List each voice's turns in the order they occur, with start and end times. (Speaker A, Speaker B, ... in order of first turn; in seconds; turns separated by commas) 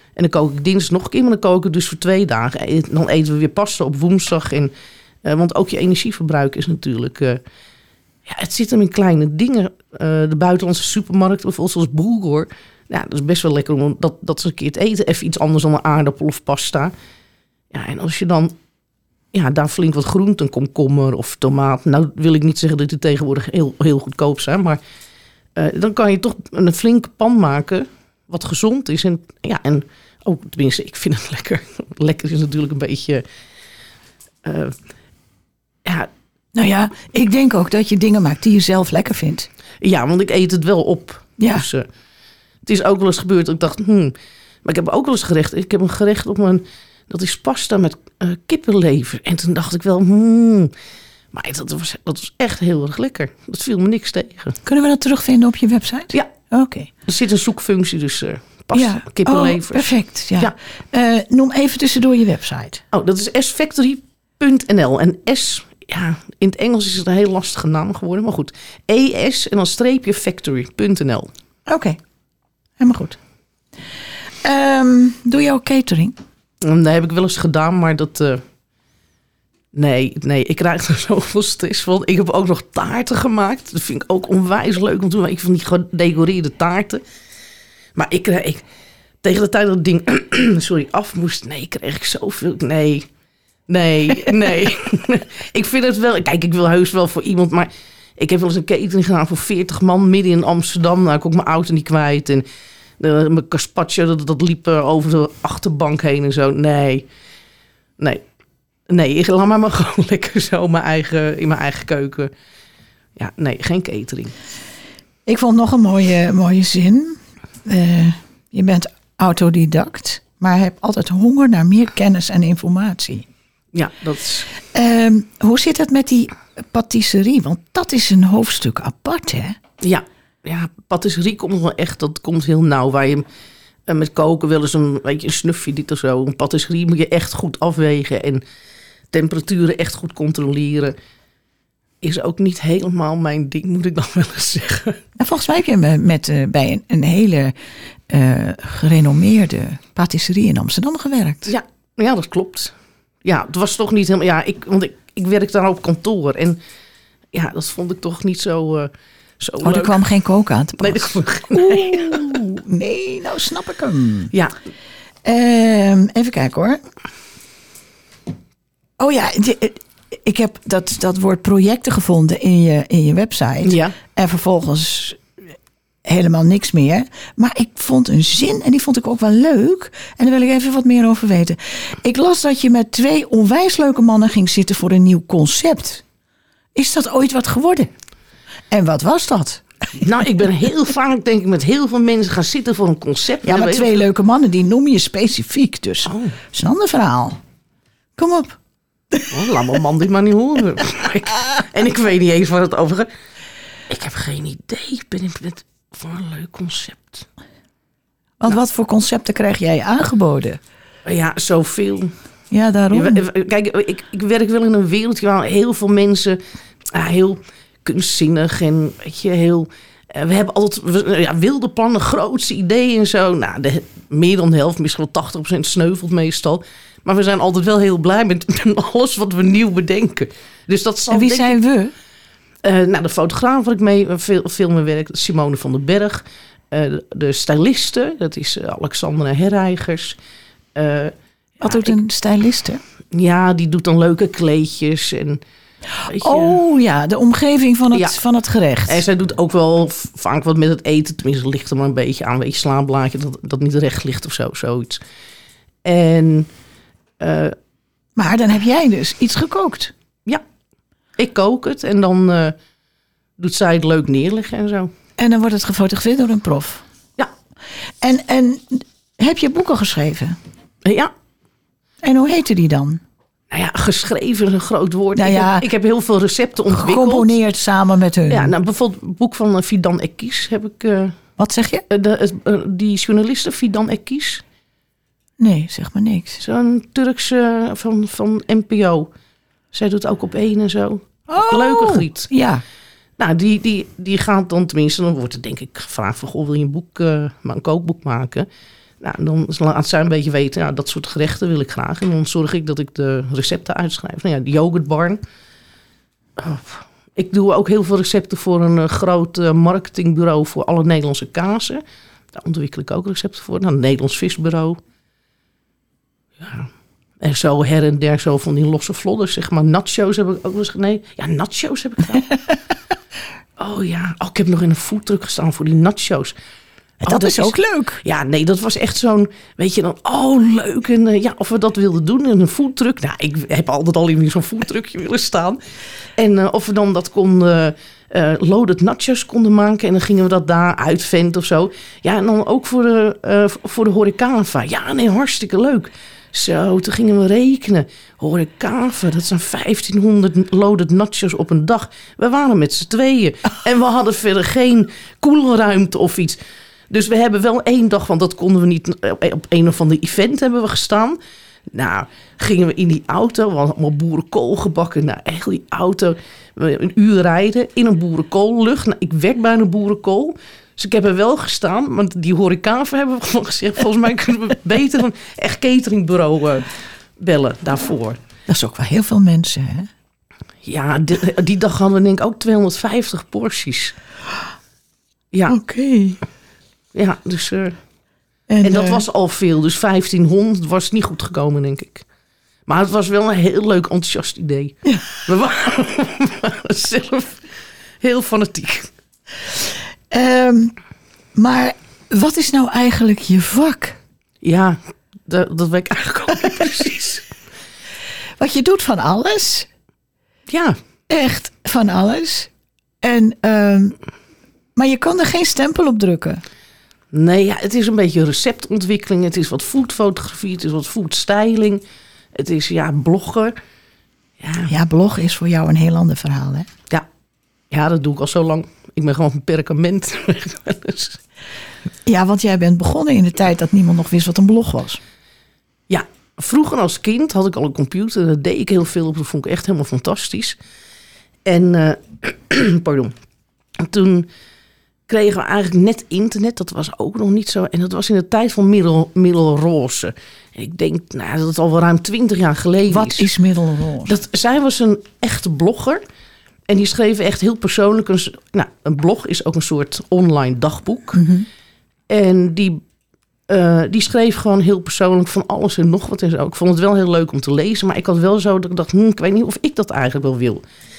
Speaker A: 0.2-4.7, Speaker A: 5.2-7.4, Speaker A: 8.3-16.9, Speaker A: 17.7-18.6, Speaker A: 19.3-24.8, Speaker A: 25.6-33.2, Speaker A: 34.4-34.8, Speaker A: 35.9-36.1, Speaker B: 36.5-39.5, Speaker A: 39.8-41.9, Speaker B: 41.4-41.7, Speaker A: 42.6-50.7, Speaker A: 51.3-54.6, Speaker B: 54.6-56.9, Speaker A: 57.1-60.5, Speaker B: 58.7-62.8, Speaker A: 62.9-71.3, Speaker B: 71.7-72.0, Speaker B: 72.8-73.2, Speaker B: 74.4-76.2, Speaker A: 76.6-78.4, Speaker A: 79.7-87.0, Speaker A: 88.0-88.6, Speaker A: 89.2-93.1, Speaker A: 93.7-102.5, Speaker A: 103.0-107.1, Speaker A: 108.9-112.3, Speaker A: 113.2-114.3, Speaker B: 115.3-123.3, Speaker A: 123.7-124.5, Speaker B: 124.7-129.6, Speaker A: 129.8-133.2, Speaker A: 133.9-138.4, Speaker A: 139.1-140.9, Speaker A: 142.0-145.0, Speaker B: 145.2-147.5, Speaker B: 148.1-151.5, Speaker A: 151.5-156.6, Speaker A: 157.3-160.0, Speaker B: 159.6-164.3, Speaker A: 160.8-162.4, Speaker B: 165.2-166.8, Speaker B: 169.0-175.2, Speaker A: 173.6-174.0, Speaker B: 176.1-186.0, Speaker B: 186.8-187.9, Speaker B: 188.7-189.7, Speaker A: 189.9-194.0, Speaker B: 193.4-197.4, Speaker A: 196.1-196.3, Speaker B: 198.2-198.6, Speaker A: 199.3-203.1, Speaker A: 203.9-207.3, Speaker B: 208.4-210.6, Speaker A: 211.1-212.1, Speaker B: 212.5-213.2, Speaker A: 212.9-216.4, Speaker A: 216.9-231.6, Speaker B: 231.1-231.9, Speaker A: 232.6-240.2, Speaker A: 240.8-242.0, Speaker B: 241.6-242.8, Speaker A: 243.1-245.4, Speaker B: 246.0-249.0, Speaker A: 246.1-246.6, Speaker A: 247.9-248.2, Speaker A: 248.9-255.0, Speaker A: 255.8-256.5, Speaker A: 257.2-257.6, Speaker B: 258.2-259.9, Speaker A: 261.2-262.6, Speaker A: 263.4-264.9, Speaker B: 265.2-266.8, Speaker B: 268.0-270.4, Speaker A: 270.9-271.1, Speaker B: 272.0-273.0, Speaker A: 273.5-277.3, Speaker B: 275.1-275.7, Speaker B: 276.7-278.5, Speaker A: 278.3-281.2, Speaker B: 281.4-281.9, Speaker A: 281.9-284.4, Speaker B: 285.4-286.4, Speaker A: 286.4-289.1, Speaker A: 289.7-292.3, Speaker B: 291.3-292.6, Speaker A: 293.2-298.5, Speaker A: 299.0-305.2, Speaker A: 306.4-311.8, Speaker A: 312.3-314.8, Speaker A: 316.4-322.3, Speaker A: 323.6-326.4, Speaker B: 327.0-328.0, Speaker A: 327.0-335.6, Speaker A: 336.2-356.4, Speaker A: 356.9-378.2, Speaker B: 378.5-379.9, Speaker A: 380.6-383.9, Speaker B: 385.5-386.2, Speaker A: 386.9-387.8, Speaker B: 388.5-389.0, Speaker A: 388.6-392.1, Speaker A: 392.7-397.4, Speaker A: 398.0-398.9, Speaker B: 400.1-400.7, Speaker B: 401.4-404.0, Speaker A: 404.4-407.3, Speaker B: 408.4-409.7, Speaker A: 410.5-410.8, Speaker B: 411.1-412.5, Speaker B: 413.0-414.0, Speaker B: 414.8-416.4, Speaker A: 417.1-421.8, Speaker A: 422.4-423.6, Speaker A: 424.4-424.7, Speaker B: 424.7-426.7, Speaker A: 427.7-431.2, Speaker B: 432.1-435.0, Speaker A: 435.9-440.6, Speaker A: 441.4-443.1, Speaker A: 443.8-444.3, Speaker A: 445.1-453.3, Speaker B: 452.9-454.1, Speaker A: 454.1-456.0, Speaker A: 456.7-461.2, Speaker B: 461.1-461.5, Speaker A: 462.1-462.8, Speaker A: 463.5-470.6